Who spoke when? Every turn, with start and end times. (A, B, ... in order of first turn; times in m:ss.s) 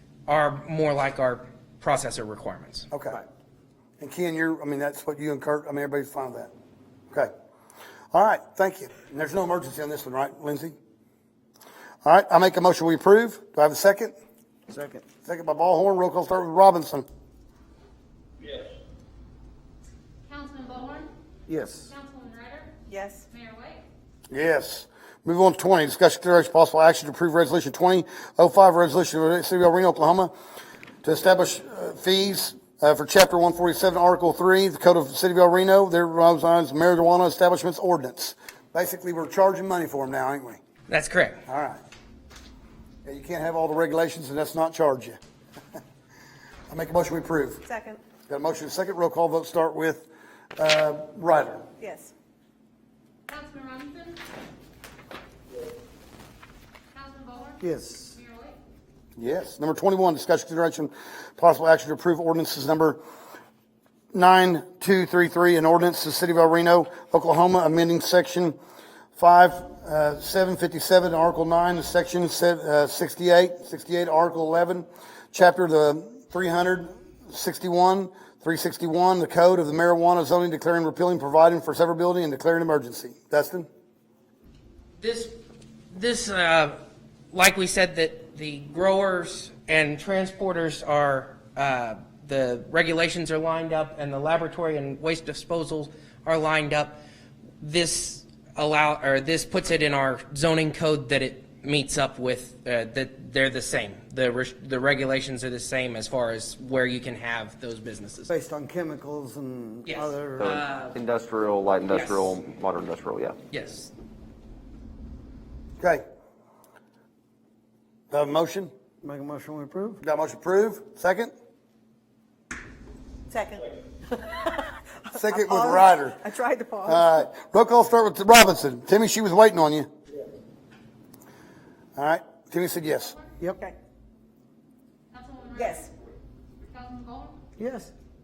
0:00.3-0:02.9 A
0:02.9-0:03.2 B
0:04.0-0:06.5 B
0:08.1-0:10.7 B
0:12.0-0:14.1 B
0:14.7-0:15.0 C
0:15.2-0:17.0 B
0:20.3-0:21.1 D
0:21.5-0:21.9 C
0:21.9-0:22.7 D
0:22.9-0:23.2 E
0:23.3-0:23.8 D
0:24.3-0:30.3 B
0:31.0-0:40.6 B
0:40.9-0:41.4 A
0:41.5-0:41.8 B
0:43.0-0:45.2 B
0:46.7-0:47.6 B
0:47.6-0:48.0 E
0:48.3-0:51.7 B
0:51.8-0:52.1 E
0:53.3-0:54.2 D
0:57.0-0:57.6 D
0:57.6-0:58.2 C
0:59.2-1:03.0 B
1:04.1-1:08.6 B
1:09.2-1:23.7 B
1:25.0-1:25.3 A
1:25.9-1:26.8 A
1:27.3-1:37.0 A
1:37.6-1:48.3 A
1:48.3-1:50.4 C
1:49.8-1:51.0 A
1:50.4-1:53.4 F
1:51.9-1:52.4 A
1:53.5-1:53.9 A
1:58.1-1:58.7 B
1:59.0-2:00.0 C
2:00.0-2:01.3 B
2:03.3-2:04.7 E
2:05.1-2:06.3 B
2:05.3-2:07.0 E
2:06.8-2:09.9 B
2:12.0-2:13.2 B
2:15.1-2:15.7 D
2:15.5-2:15.9 E
2:16.7-2:17.4 D
2:17.6-2:17.9 C